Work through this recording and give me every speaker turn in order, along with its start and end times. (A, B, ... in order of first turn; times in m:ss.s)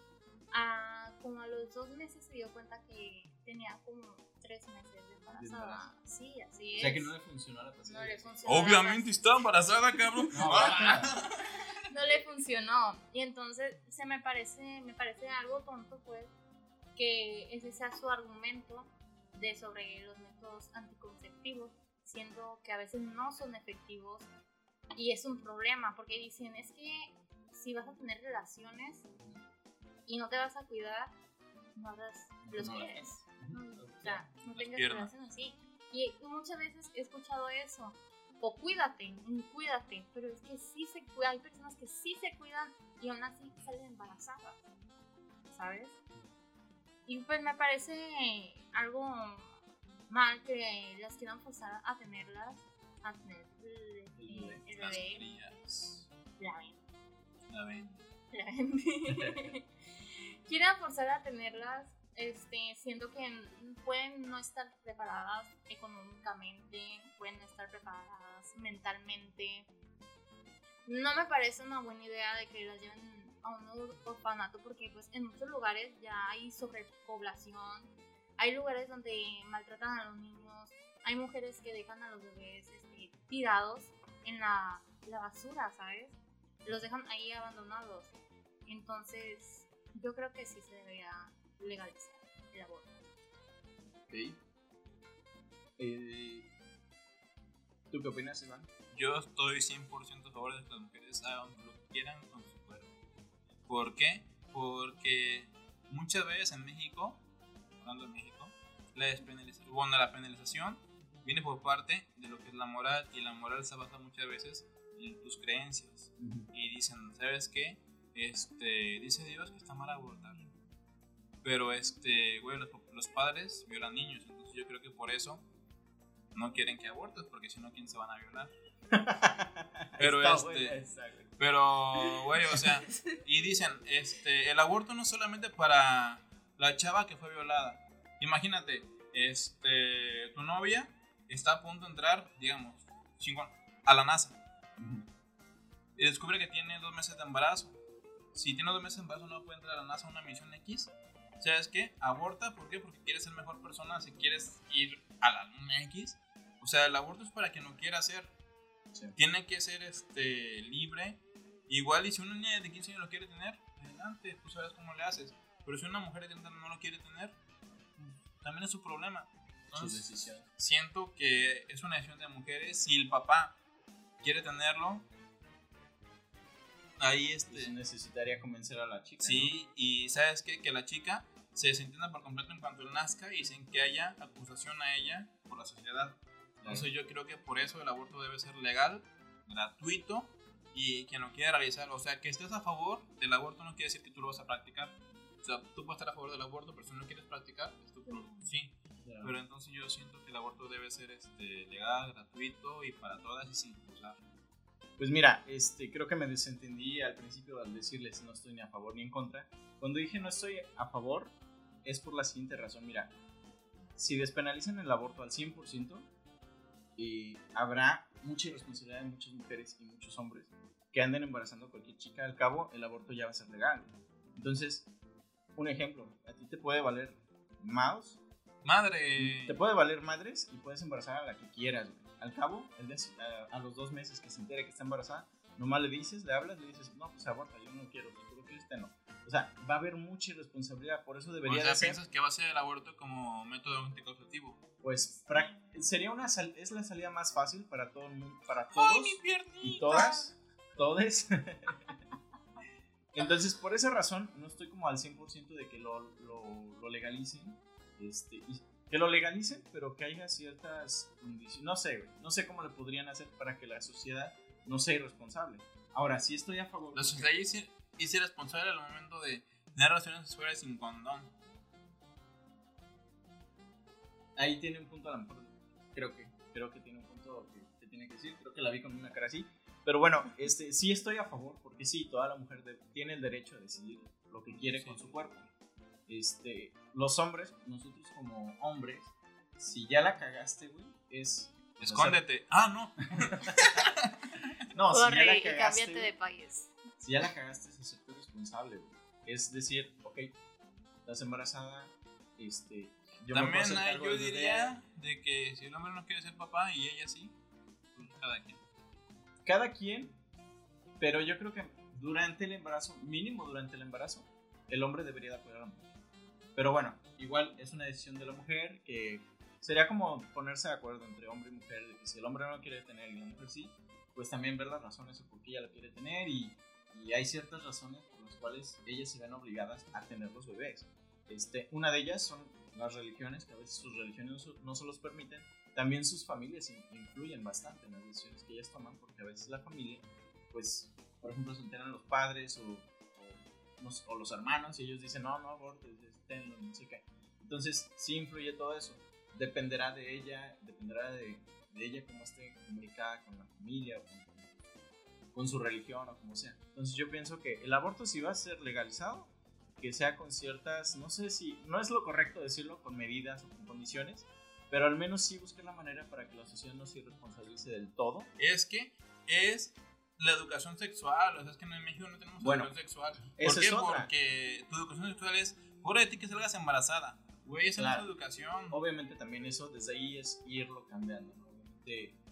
0:00.5-0:07.1 A
0:05.3-0:05.9 B
0:06.8-0:08.4 B
0:07.9-0:09.2 A
0:08.4-0:11.3 C
0:10.1-0:10.8 A
0:10.3-0:11.1 B
0:11.9-0:16.3 A
0:17.0-0:24.3 A
0:25.0-0:29.1 A
0:30.1-0:31.1 A
0:31.8-0:44.6 A
0:32.4-0:34.2 B
0:34.5-0:35.1 C
0:45.5-0:46.0 A
0:47.1-0:49.5 A
0:50.1-0:55.3 A
0:54.2-0:54.6 B
0:54.7-0:56.1 C
0:56.4-0:56.9 A
0:57.5-0:58.1 C
0:58.3-0:59.7 A
0:59.1-0:59.5 B
1:00.4-1:09.7 A
1:10.9-1:28.1 A
1:28.6-1:33.1 A
1:34.1-1:34.4 B
1:35.8-1:36.5 B
1:37.9-1:38.7 B
1:38.9-1:42.9 C
1:43.7-1:47.2 C
1:47.8-2:00.5 C
1:56.2-1:56.5 B
2:01.4-2:05.4 C
2:06.3-2:08.5 C
2:08.9-2:11.3 B
2:10.0-2:10.8 C
2:11.4-2:24.4 C
2:11.9-2:12.8 B
2:24.8-2:25.0 B
2:26.0-2:27.8 C
2:28.3-2:38.3 C
2:39.2-2:47.4 C
2:48.0-2:53.6 C
2:49.7-2:50.4 B
2:54.2-2:55.0 C
2:57.0-2:57.7 C
2:57.5-2:59.5 B
2:59.2-3:24.2 C
3:06.6-3:06.9 B
3:18.1-3:18.5 A
3:19.0-3:19.3 B
3:25.0-3:33.1 B
3:34.0-3:36.1 B
3:37.0-3:44.9 B
3:45.6-3:48.2 B
3:48.6-3:49.6 C
3:49.2-4:02.0 B
4:01.4-4:04.6 C
4:04.8-4:11.9 B
4:08.7-4:10.3 C
4:13.1-4:27.3 B
4:27.0-4:31.3 C
4:34.4-4:45.5 B
4:44.5-4:45.2 C
4:46.1-4:52.2 B
4:51.8-4:54.3 C
4:53.2-4:53.9 B
4:54.7-4:56.1 B
4:54.9-4:56.7 A
4:57.0-5:00.3 B
5:01.0-5:04.8 B
5:03.3-5:07.3 C
5:08.0-5:08.6 C
5:09.4-5:10.2 B
5:11.0-5:15.9 B
5:16.6-5:54.6 B
5:55.3-6:08.3 B
6:08.4-6:18.8 C
6:12.4-6:12.7 B
6:13.4-6:14.1 B
6:17.8-6:18.1 B
6:18.7-6:22.2 B